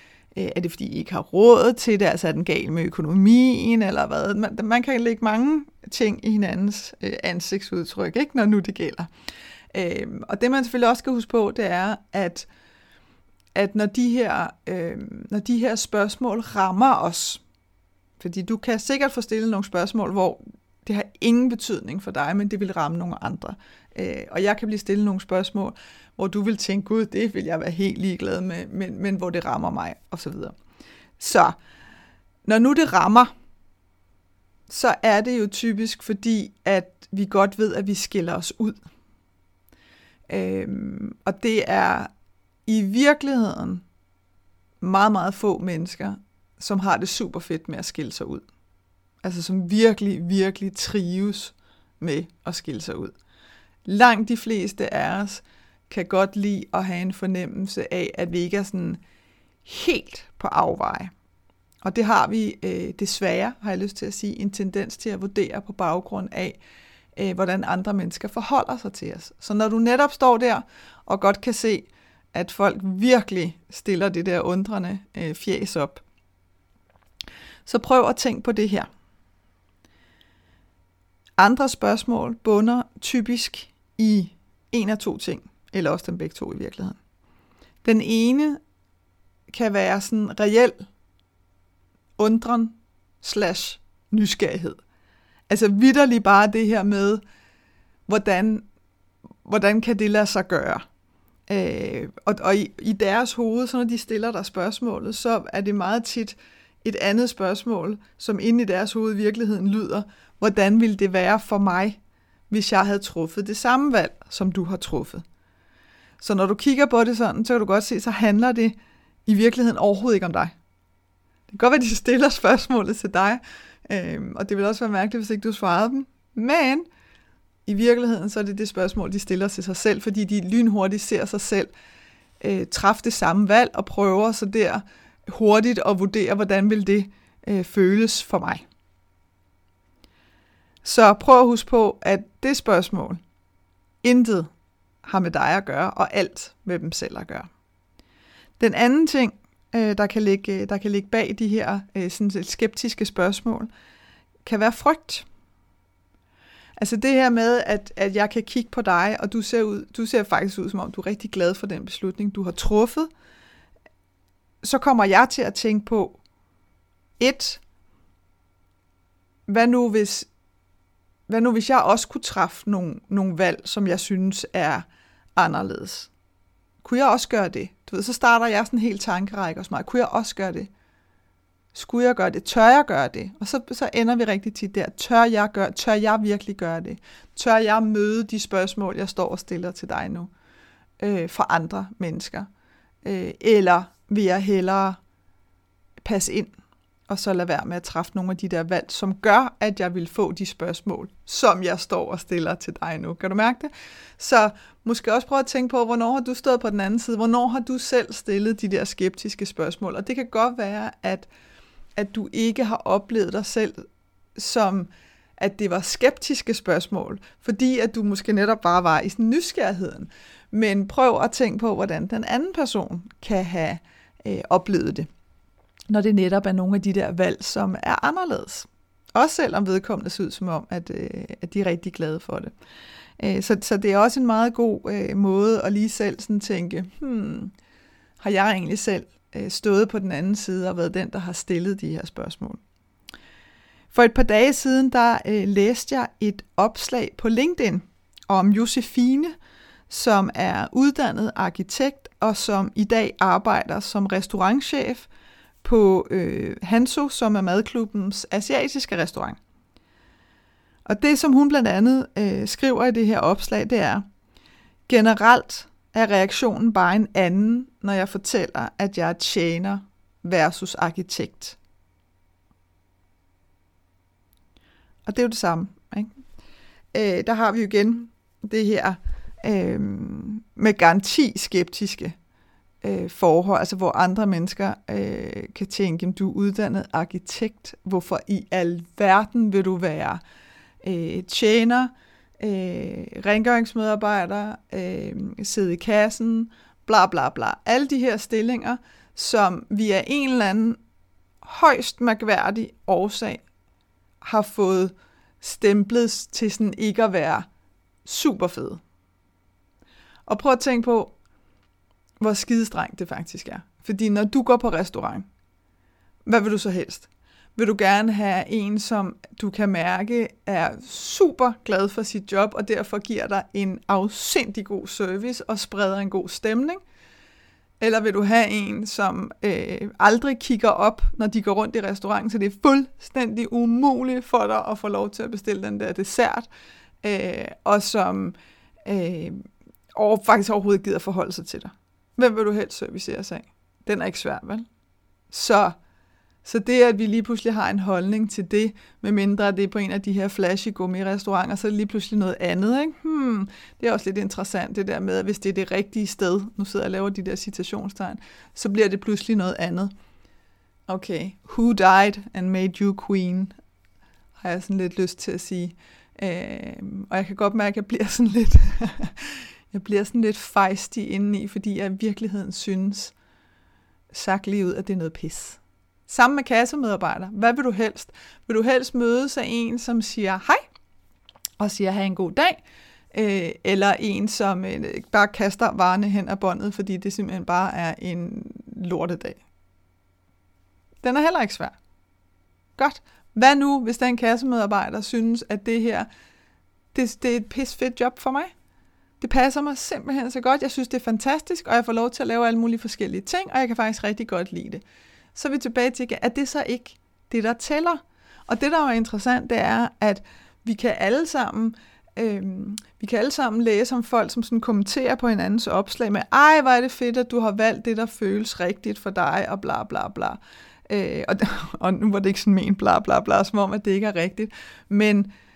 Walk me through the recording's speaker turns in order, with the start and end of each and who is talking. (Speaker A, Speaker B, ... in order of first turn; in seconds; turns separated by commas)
Speaker A: 0.3-9.1, Speaker A: 9.7-12.5, Speaker A: 13.5-17.4, Speaker A: 18.2-30.6, Speaker A: 31.2-31.6, Speaker A: 32.5-33.3, Speaker A: 34.7-38.8, Speaker A: 40.3-42.1, Speaker A: 42.7-43.8, Speaker A: 44.8-48.5, Speaker A: 49.2-53.1, Speaker A: 53.9-59.0, Speaker A: 59.6-61.1, Speaker A: 61.8-66.6, Speaker A: 67.2-76.0, Speaker A: 77.7-78.9, Speaker A: 81.4-87.0, Speaker A: 87.8-88.6, Speaker A: 89.5-90.9, Speaker A: 92.2-94.8, Speaker A: 95.5-97.2, Speaker A: 98.1-98.7, Speaker A: 99.5-100.8, Speaker A: 101.5-112.0, Speaker A: 112.5-115.2, Speaker A: 116.2-120.5, Speaker A: 121.5-126.9, Speaker A: 127.7-131.7, Speaker A: 132.4-138.7, Speaker A: 140.8-143.2, Speaker A: 144.0-144.5, Speaker A: 145.1-147.5, Speaker A: 148.6-153.7, Speaker A: 154.4-155.3, Speaker A: 156.8-163.1, Speaker A: 164.6-166.2, Speaker A: 167.2-167.6, Speaker A: 169.5-170.3, Speaker A: 171.3-176.1, Speaker A: 176.8-180.7, Speaker A: 181.7-190.3, Speaker A: 191.0-192.5, Speaker A: 193.0-195.0, Speaker A: 196.0-196.5, Speaker A: 197.1-211.3, Speaker A: 212.0-213.8, Speaker A: 214.4-225.1, Speaker A: 225.9-232.5, Speaker A: 233.2-237.5, Speaker A: 238.2-242.6, Speaker A: 243.9-249.3, Speaker A: 249.9-255.1, Speaker A: 255.6-259.4, Speaker A: 260.9-264.1, Speaker A: 264.9-271.6, Speaker A: 275.1-276.1, Speaker A: 276.9-282.2, Speaker A: 282.8-290.2, Speaker A: 290.8-300.8, Speaker A: 301.4-303.4, Speaker A: 304.2-307.5, Speaker A: 308.1-308.8, Speaker A: 310.3-311.1, Speaker A: 312.2-315.3, Speaker A: 316.3-326.8, Speaker A: 327.8-336.5, Speaker A: 337.0-344.7, Speaker A: 345.3-345.8, Speaker A: 346.4-359.9, Speaker A: 360.9-363.5, Speaker A: 364.4-373.1, Speaker A: 374.1-380.6, Speaker A: 381.6-382.6, Speaker A: 383.1-389.4, Speaker A: 391.0-391.8, Speaker A: 392.8-396.1, Speaker A: 396.9-398.5, Speaker A: 399.2-404.8, Speaker A: 405.4-425.3